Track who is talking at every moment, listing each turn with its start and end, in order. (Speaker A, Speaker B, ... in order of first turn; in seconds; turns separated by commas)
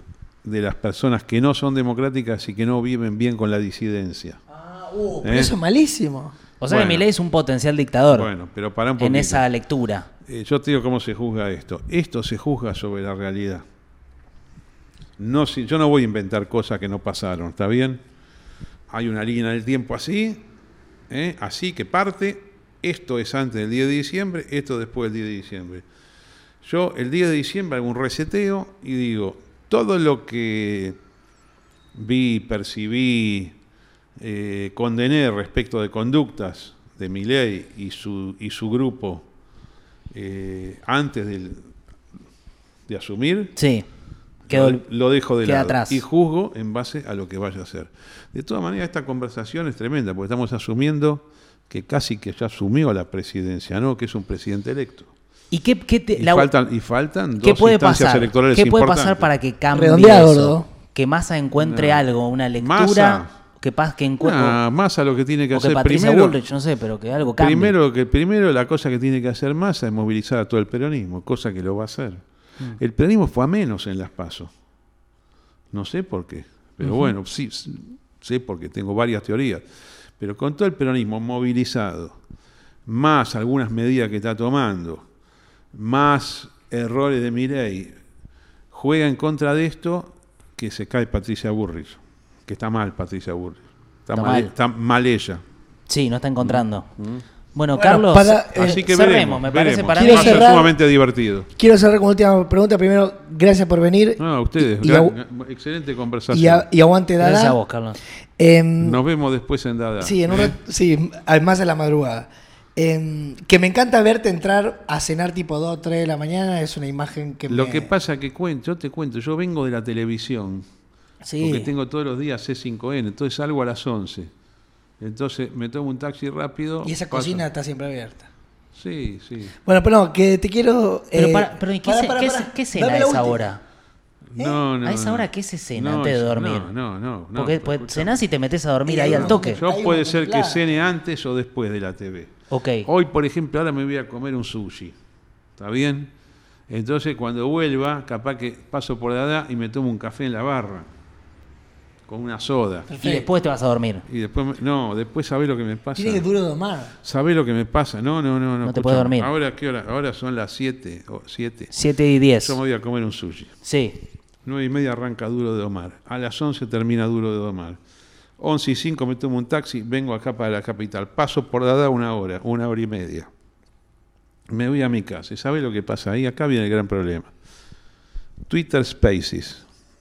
Speaker A: 0.4-4.4, Speaker B: 4.5-6.3, Speaker A: 5.2-5.5, Speaker C: 6.6-8.3, Speaker A: 6.7-7.0, Speaker A: 8.1-9.4, Speaker C: 9.0-10.1, Speaker A: 10.3-13.6, Speaker A: 15.2-18.0, Speaker A: 18.9-20.4, Speaker A: 21.1-25.9, Speaker A: 26.6-31.0, Speaker A: 31.9-33.5, Speaker A: 34.2-39.3, Speaker A: 40.1-41.7, Speaker A: 42.9-43.5, Speaker C: 43.6-43.9, Speaker A: 44.5-55.1, Speaker C: 44.5-44.8, Speaker C: 45.4-46.0, Speaker C: 55.5-56.5, Speaker A: 56.1-59.3, Speaker C: 57.4-64.6, Speaker B: 59.7-60.7, Speaker A: 61.6-62.0, Speaker A: 62.6-63.3, Speaker A: 64.2-66.4, Speaker C: 65.5-67.7, Speaker A: 67.4-72.2, Speaker A: 72.8-74.5, Speaker A: 75.7-79.6, Speaker C: 76.8-77.1, Speaker A: 80.2-82.2, Speaker A: 82.9-85.0, Speaker A: 85.7-88.0, Speaker A: 88.7-95.4, Speaker C: 94.2-94.5, Speaker C: 95.9-96.9, Speaker A: 96.4-97.2, Speaker C: 97.5-100.5, Speaker B: 97.8-98.8, Speaker A: 98.6-101.5, Speaker B: 100.0-100.7, Speaker B: 101.6-105.2, Speaker A: 104.2-106.7, Speaker B: 106.3-107.6, Speaker C: 107.2-108.0, Speaker B: 108.4-109.0, Speaker A: 108.8-110.6, Speaker B: 110.0-117.9, Speaker A: 117.5-120.7, Speaker B: 121.3-121.7, Speaker A: 121.4-124.3, Speaker A: 125.0-127.4, Speaker B: 126.8-128.3, Speaker A: 128.8-129.6, Speaker B: 129.7-133.5, Speaker C: 131.1-133.6, Speaker A: 134.3-138.2, Speaker C: 134.8-136.7, Speaker C: 137.4-139.6, Speaker B: 138.9-140.6, Speaker A: 139.1-142.3, Speaker C: 142.5-142.9, Speaker A: 142.8-145.0, Speaker A: 145.6-146.1, Speaker A: 146.7-150.9, Speaker A: 152.1-152.9, Speaker B: 152.9-153.3, Speaker C: 153.0-154.1, Speaker A: 154.1-156.2, Speaker B: 156.0-156.9, Speaker A: 157.0-161.7, Speaker C: 158.7-159.3, Speaker C: 161.7-162.6, Speaker A: 162.4-163.5, Speaker C: 163.6-164.0, Speaker A: 164.4-167.8, Speaker A: 168.4-173.3, Speaker A: 174.5-177.3, Speaker A: 178.5-179.6